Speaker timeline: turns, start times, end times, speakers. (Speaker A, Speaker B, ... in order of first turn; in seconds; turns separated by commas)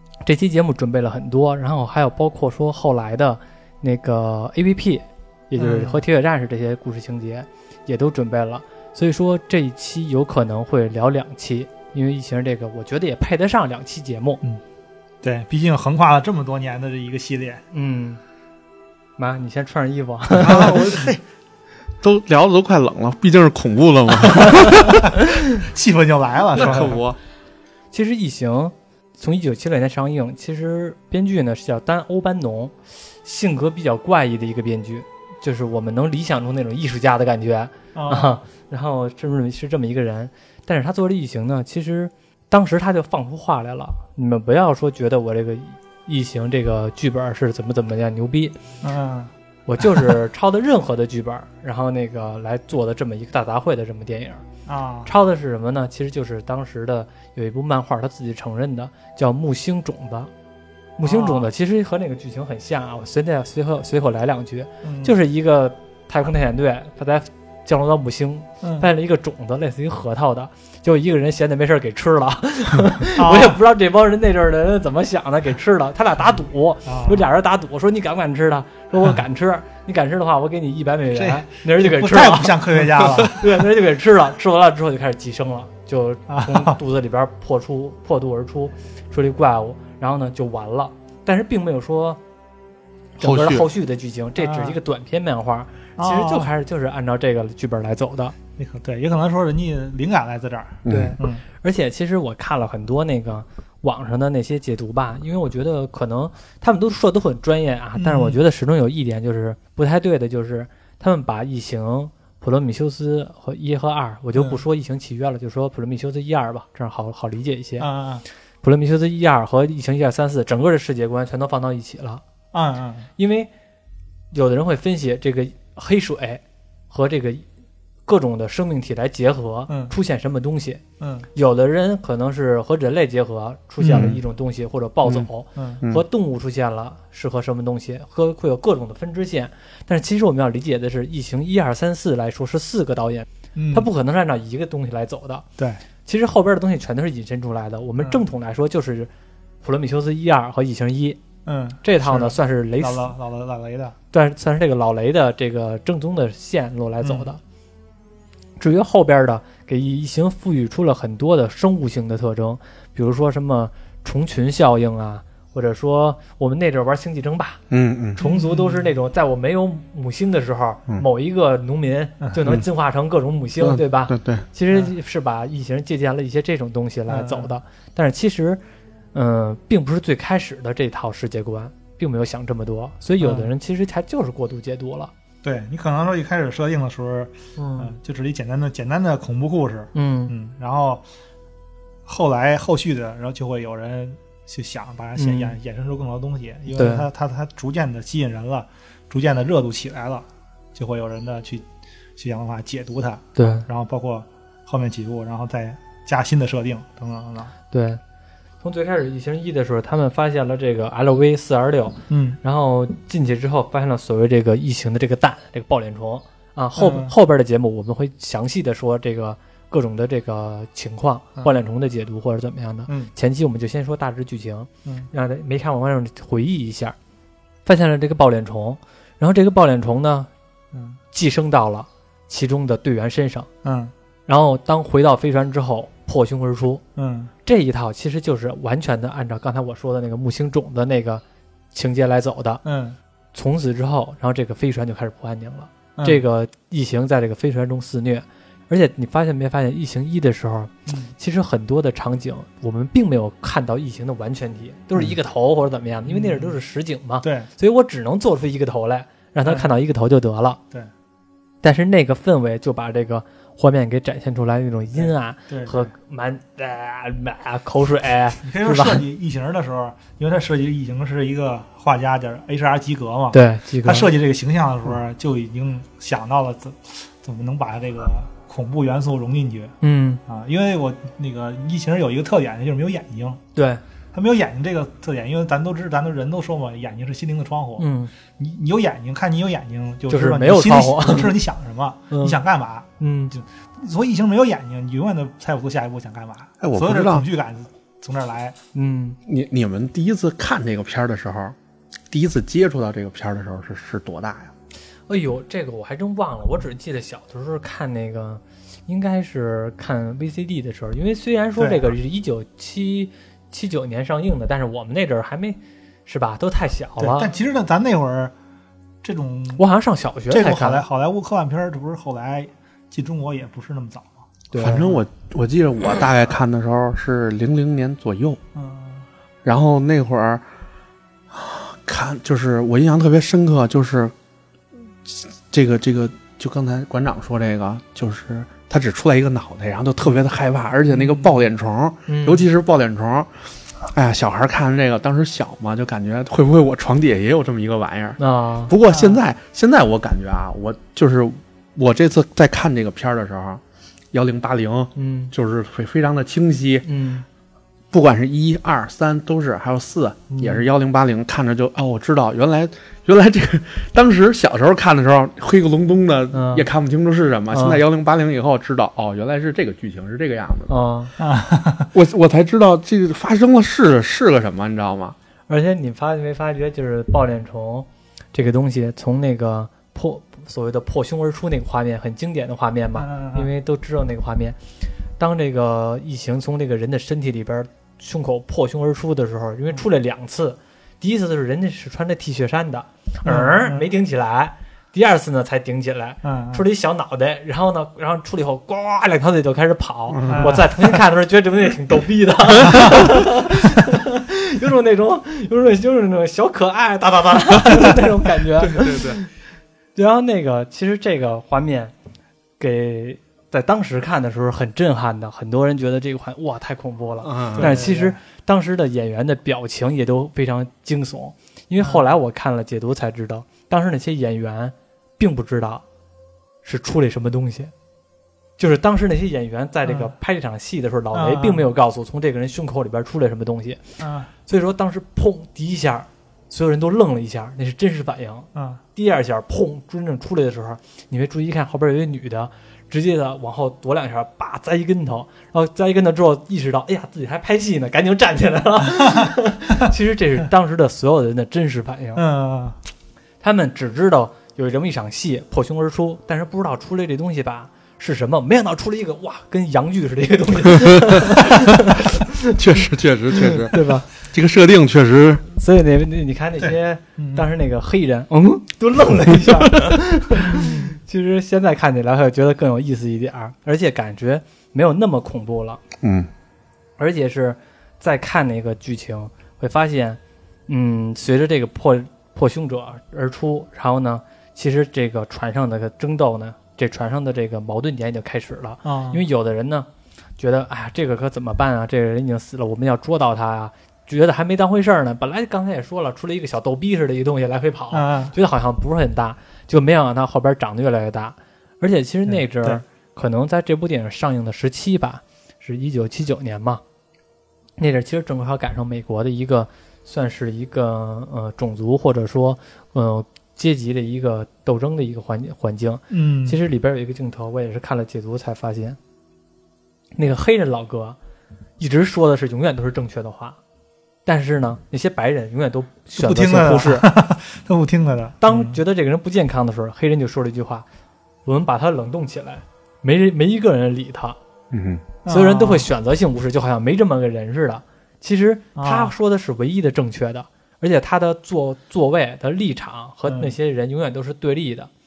Speaker A: 0.2-14.4, Speaker B: 5.6-6.0, Speaker B: 15.2-17.6, Speaker A: 17.7-18.2, Speaker A: 19.2-20.8, Speaker C: 20.4-21.2, Speaker B: 20.5-20.8, Speaker C: 22.0-25.0, Speaker A: 24.6-25.2, Speaker B: 25.0-27.0, Speaker C: 26.5-27.2, Speaker A: 27.9-48.6, Speaker B: 37.9-38.4, Speaker B: 48.8-49.3, Speaker A: 49.6-54.4, Speaker B: 54.6-55.1, Speaker A: 55.0-60.3, Speaker A: 61.0-92.2, Speaker B: 61.0-61.5, Speaker B: 64.8-65.1, Speaker B: 68.6-68.9, Speaker B: 73.2-73.6, Speaker B: 76.8-77.3, Speaker B: 81.1-83.6, Speaker B: 86.3-86.8, Speaker A: 93.2-98.4, Speaker C: 93.2-93.7, Speaker B: 94.4-94.8, Speaker B: 96.0-96.5, Speaker B: 98.6-101.4, Speaker C: 100.8-101.2, Speaker A: 100.9-117.9, Speaker B: 107.9-108.4, Speaker B: 114.3-114.6, Speaker B: 117.8-118.2, Speaker A: 118.6-122.2, Speaker B: 122.5-123.1, Speaker A: 123.2-123.5, Speaker A: 124.3-127.4, Speaker A: 128.1-130.8, Speaker B: 129.7-129.9, Speaker B: 131.0-131.3, Speaker A: 131.3-145.4, Speaker B: 133.8-134.2, Speaker C: 133.9-134.2, Speaker B: 135.6-135.8, Speaker B: 143.5-143.9, Speaker A: 146.0-149.1, Speaker B: 148.0-148.2, Speaker A: 149.6-151.2, Speaker B: 151.4-153.9, Speaker A: 151.8-153.1, Speaker A: 154.1-157.4, Speaker B: 157.0-157.3, Speaker A: 158.6-167.6, Speaker C: 167.7-168.2, Speaker A: 168.2-178.6, Speaker B: 168.2-168.9, Speaker C: 173.6-174.4, Speaker B: 177.1-177.5, Speaker A: 179.1-185.1, Speaker B: 183.2-183.5, Speaker B: 185.4-191.0, Speaker A: 187.6-187.9, Speaker A: 189.9-190.3, Speaker B: 192.1-201.6, Speaker A: 195.2-195.6, Speaker A: 196.7-197.1, Speaker B: 202.2-207.5, Speaker A: 203.3-203.7, Speaker A: 207.7-208.0, Speaker A: 208.6-226.9, Speaker B: 212.1-212.4, Speaker B: 216.8-217.1, Speaker A: 227.7-230.3, Speaker B: 230.7-231.0, Speaker A: 231.1-233.5, Speaker B: 233.6-233.9, Speaker A: 234.3-236.8, Speaker B: 236.9-237.3, Speaker A: 237.4-242.6, Speaker B: 242.6-243.0, Speaker A: 243.3-260.6, Speaker B: 245.9-246.2, Speaker B: 250.9-251.1, Speaker B: 256.1-256.6, Speaker B: 257.2-257.5, Speaker A: 261.6-269.0, Speaker B: 265.0-265.7, Speaker B: 268.4-279.7, Speaker A: 273.3-274.1, Speaker A: 279.8-280.2, Speaker B: 280.3-283.4, Speaker A: 283.6-283.8, Speaker B: 284.1-298.6, Speaker A: 287.8-288.1, Speaker A: 290.1-291.4, Speaker A: 292.1-292.4, Speaker A: 293.0-293.3, Speaker C: 296.6-297.2, Speaker A: 298.7-299.2, Speaker C: 299.2-301.6, Speaker C: 302.1-304.5, Speaker A: 305.1-317.3, Speaker B: 311.6-311.9, Speaker B: 317.0-318.3, Speaker B: 319.0-319.6, Speaker A: 319.6-320.8, Speaker B: 320.3-325.0, Speaker A: 324.5-324.9, Speaker C: 324.6-328.4, Speaker B: 328.5-329.1, Speaker C: 329.4-330.4, Speaker C: 331.3-334.1, Speaker C: 335.1-356.9, Speaker B: 340.9-341.3, Speaker A: 342.1-342.4, Speaker A: 348.2-348.7, Speaker B: 348.8-349.2, Speaker A: 354.9-355.3, Speaker A: 356.8-357.2, Speaker C: 357.9-370.7, Speaker A: 360.3-360.6, Speaker A: 366.3-366.7, Speaker A: 367.5-367.8, Speaker A: 370.7-371.1, Speaker B: 371.2-371.9, Speaker C: 371.9-375.1, Speaker A: 375.5-384.6, Speaker B: 383.0-383.5, Speaker A: 385.2-409.3, Speaker B: 393.2-393.9, Speaker B: 396.2-396.6, Speaker C: 400.1-400.6, Speaker B: 400.3-400.7, Speaker C: 408.6-409.2, Speaker A: 409.9-411.9, Speaker A: 412.6-425.8, Speaker C: 417.2-417.8, Speaker B: 417.5-418.2, Speaker B: 421.8-422.1, Speaker A: 426.6-427.7, Speaker A: 428.6-433.8, Speaker B: 429.8-430.1, Speaker B: 431.1-431.7, Speaker B: 434.0-434.3, Speaker A: 434.4-452.2, Speaker B: 438.5-438.8, Speaker B: 452.1-452.8, Speaker A: 453.4-462.8, Speaker C: 462.5-465.5, Speaker A: 463.4-464.1, Speaker A: 465.6-475.8, Speaker B: 466.6-467.5, Speaker B: 470.4-470.9, Speaker C: 476.0-476.3, Speaker A: 477.0-506.8, Speaker B: 488.8-489.2, Speaker B: 497.9-498.3, Speaker B: 502.3-502.8, Speaker A: 507.8-519.0, Speaker B: 516.1-516.6, Speaker A: 520.1-521.2, Speaker A: 521.8-523.6, Speaker A: 524.2-527.1, Speaker B: 526.2-528.8, Speaker A: 528.4-530.8, Speaker A: 531.5-534.4, Speaker C: 534.7-535.0, Speaker B: 535.2-535.9, Speaker A: 535.3-544.9, Speaker B: 538.8-539.1, Speaker B: 543.3-543.5